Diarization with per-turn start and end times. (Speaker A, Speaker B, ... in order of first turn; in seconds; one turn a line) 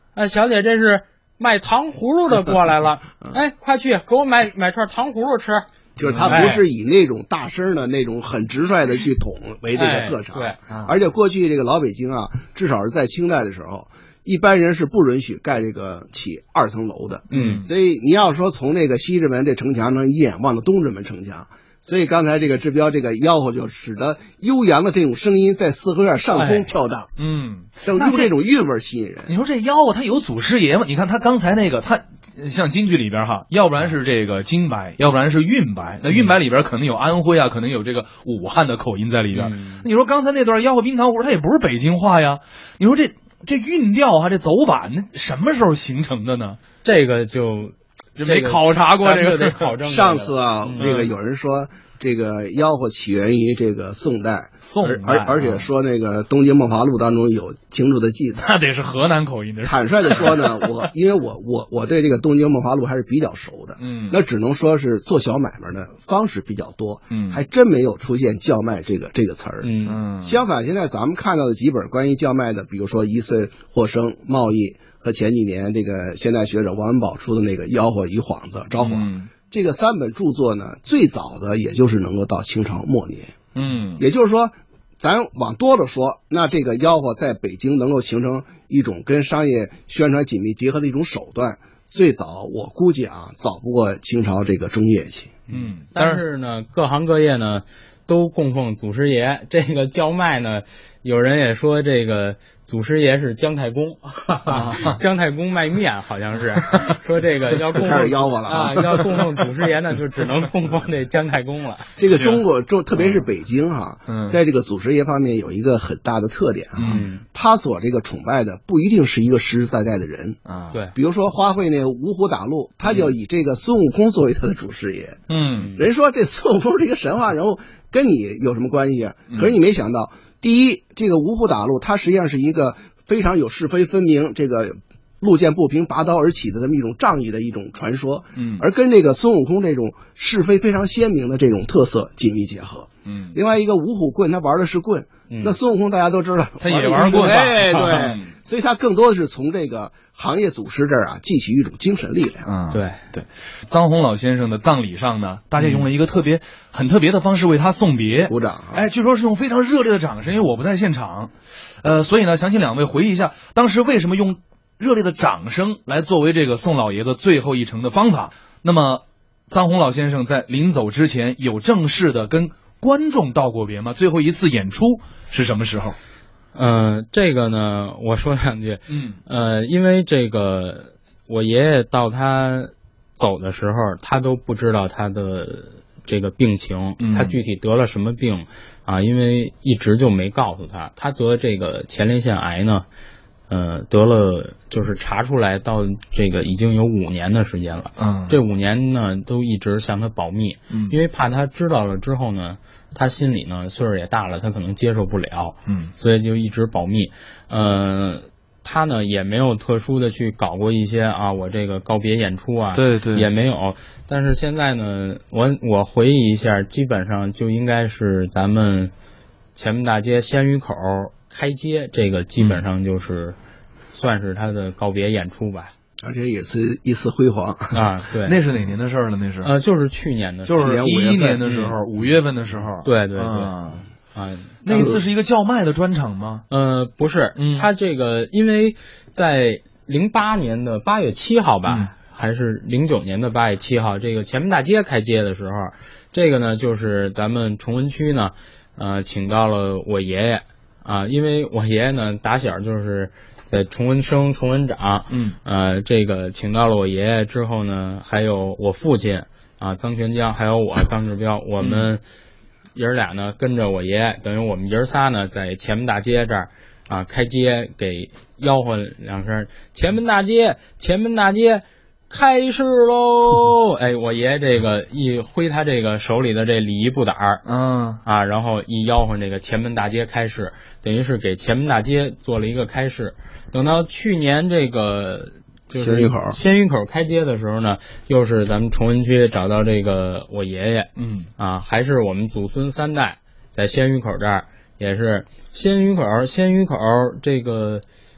Speaker A: 0.2-5.7
Speaker B: 6.0-27.1
Speaker C: 6.0-6.6
Speaker A: 6.2-6.6
Speaker A: 9.8-10.6
Speaker C: 10.7-10.9
Speaker C: 17.3-17.7
Speaker A: 17.3-17.6
Speaker C: 27.2-28.3
Speaker B: 27.8-29.3
Speaker C: 29.3-46.6
Speaker A: 39.3-39.9
Speaker A: 46.8-51.0
Speaker C: 48.2-49.7
Speaker B: 49.8-58.5
Speaker C: 50.8-51.1
Speaker C: 54.6-55.6
Speaker C: 58.4-60.9
Speaker B: 59.6-69.7
Speaker C: 63.8-64.2
Speaker C: 67.1-67.4
Speaker A: 69.6-70.0
Speaker C: 69.8-70.4
Speaker B: 70.2-83.4
Speaker C: 78.8-79.3
Speaker C: 83.5-84.0
Speaker B: 84.0-95.4
Speaker A: 95.5-111.9
Speaker C: 95.5-96.2
Speaker C: 104.5-105.0
Speaker B: 107.8-109.1
Speaker B: 112.0-120.4
Speaker C: 112.1-112.4
Speaker C: 114.1-114.4
Speaker C: 116.8-117.0
Speaker A: 116.8-117.2
Speaker C: 120.5-120.8
Speaker B: 120.9-125.2
Speaker C: 125.3-125.7
Speaker B: 125.8-152.5
Speaker C: 138.4-138.6
Speaker C: 143.1-143.4
Speaker A: 145.3-145.6
Speaker C: 146.6-148.3
Speaker A: 147.1-148.1
Speaker C: 152.4-176.0
Speaker A: 152.7-153.0
Speaker A: 155.6-155.9
Speaker B: 158.3-158.8
Speaker A: 176.6-192.8
Speaker C: 178.9-179.2
Speaker C: 187.0-187.4
Speaker A: 193.5-218.9
Speaker C: 198.0-198.4
Speaker C: 200.7-201.0
Speaker C: 205.7-205.9
Speaker C: 212.7-213.3
Speaker A: 219.6-223.4
Speaker C: 222.4-222.6
Speaker A: 223.9-225.7
Speaker B: 226.0-227.8
Speaker A: 227.7-228.4
Speaker C: 228.2-229.5
Speaker A: 229.4-231.8
Speaker C: 230.4-233.8
Speaker B: 230.6-231.4
Speaker A: 232.8-233.5
Speaker A: 234.1-235.0
Speaker C: 234.6-236.4
Speaker A: 236.5-262.0
Speaker C: 237.4-237.7
Speaker C: 255.1-255.4
Speaker C: 261.6-261.9
Speaker A: 262.8-277.4
Speaker C: 277.4-278.0
Speaker A: 278.0-297.8
Speaker B: 285.7-286.4
Speaker C: 291.0-291.3